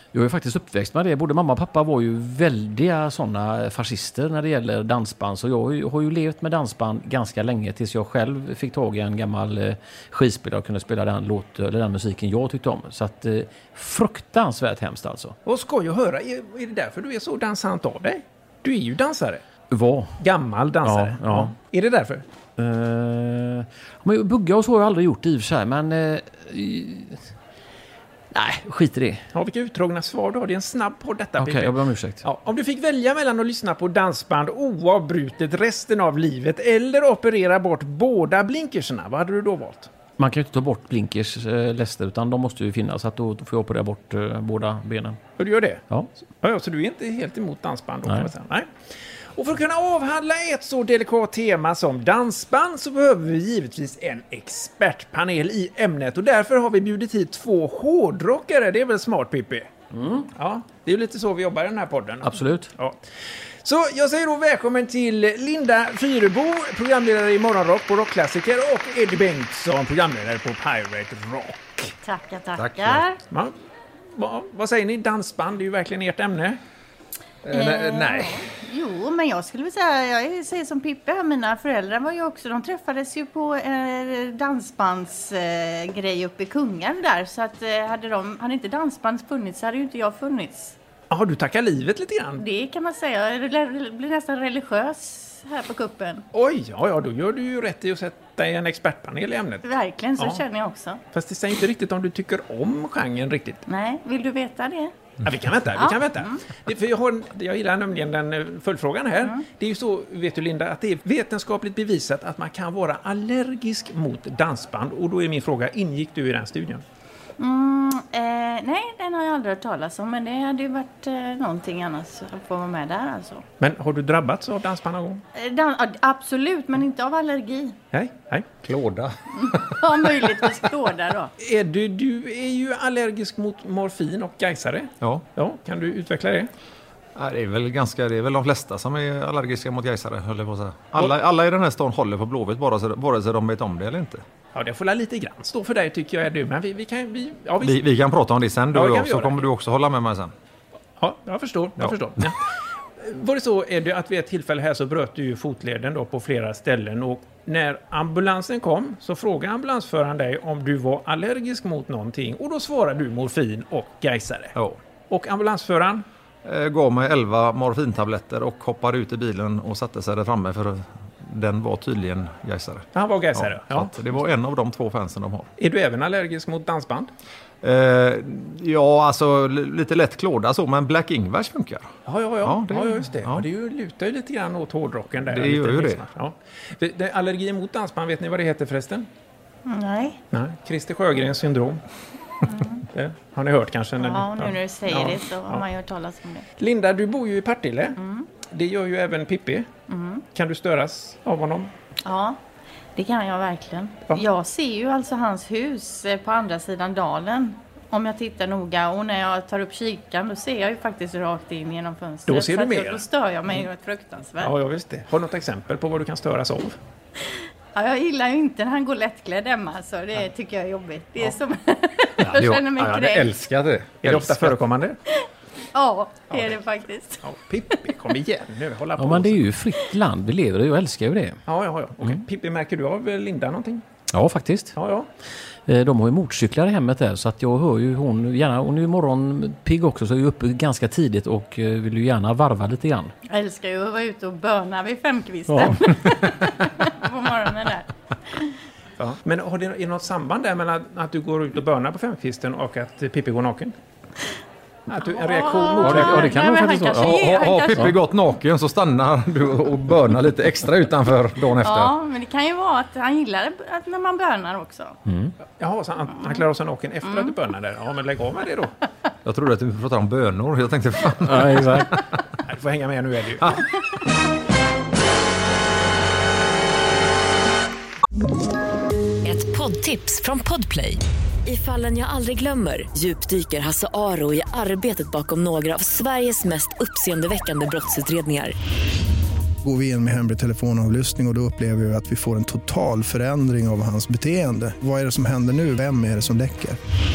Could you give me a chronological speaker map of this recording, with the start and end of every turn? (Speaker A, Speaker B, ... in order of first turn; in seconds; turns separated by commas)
Speaker A: 0.1-15.4, Speaker B: 15.5-19.4, Speaker A: 19.7-20.1, Speaker B: 20.2-22.2, Speaker A: 20.9-21.5, Speaker A: 22.6-27.2, Speaker A: 28.3-29.2, Speaker B: 29.3-39.9, Speaker A: 31.4-32.2, Speaker A: 40.2-45.2, Speaker B: 45.4-45.9, Speaker B: 46.4-48.7, Speaker B: 49.4-59.7, Speaker A: 59.9-60.3, Speaker B: 60.3-63.0, Speaker A: 62.2-62.7, Speaker B: 63.6-72.0, Speaker C: 72.0-73.2, Speaker D: 72.6-73.0, Speaker B: 74.2-76.6, Speaker D: 77.5-78.3, Speaker C: 77.5-90.8, Speaker B: 91.1-92.4, Speaker C: 92.4-96.2, Speaker B: 96.3-99.6, Speaker C: 99.6-101.0, Speaker B: 101.1-103.6, Speaker C: 103.7-104.9, Speaker B: 105.2-116.8, Speaker C: 105.8-106.4, Speaker C: 117.4-123.4, Speaker B: 123.6-125.2, Speaker C: 125.3-127.8, Speaker B: 127.9-128.5, Speaker D: 128.6-130.2, Speaker C: 129.3-131.3, Speaker B: 131.4-136.5, Speaker D: 135.0-135.3, Speaker D: 137.2-144.2, Speaker B: 144.5-147.8, Speaker D: 147.6-150.3, Speaker B: 148.7-149.4, Speaker B: 151.0-152.5, Speaker B: 153.0-164.6, Speaker B: 165.1-166.1, Speaker D: 166.4-175.5, Speaker B: 172.9-174.2, Speaker B: 175.6-177.1, Speaker D: 177.6-183.5, Speaker B: 182.1-189.1, Speaker D: 185.2-186.0, Speaker C: 189.7-190.2, Speaker B: 190.3-191.8, Speaker C: 192.5-192.8, Speaker B: 192.9-195.7, Speaker C: 194.0-196.5, Speaker B: 196.6-199.7, Speaker C: 198.0-198.3, Speaker C: 199.9-200.2, Speaker B: 200.3-201.7, Speaker C: 202.1-202.4, Speaker C: 203.0-214.6, Speaker B: 212.3-213.1, Speaker B: 214.4-216.8, Speaker C: 217.8-223.3, Speaker D: 222.2-224.6, Speaker B: 224.0-225.0, Speaker C: 225.1-227.2, Speaker B: 227.2-229.4, Speaker A: 229.0-231.4, Speaker B: 231.5-233.8, Speaker A: 234.1-234.8, Speaker B: 234.8-235.1, Speaker A: 235.7-243.1, Speaker C: 243.3-248.5, Speaker A: 245.5-246.5, Speaker B: 249.0-253.8, Speaker B: 254.9-256.4, Speaker C: 255.0-257.9, Speaker A: 255.8-257.9, Speaker D: 257.1-261.9, Speaker C: 261.6-265.0, Speaker A: 265.1-265.3, Speaker B: 265.6-268.7, Speaker C: 267.1-267.3, Speaker D: 269.2-272.0, Speaker A: 271.2-272.0, Speaker B: 272.4-273.6, Speaker E: 279.2-288.5, Speaker F: 289.6-296.8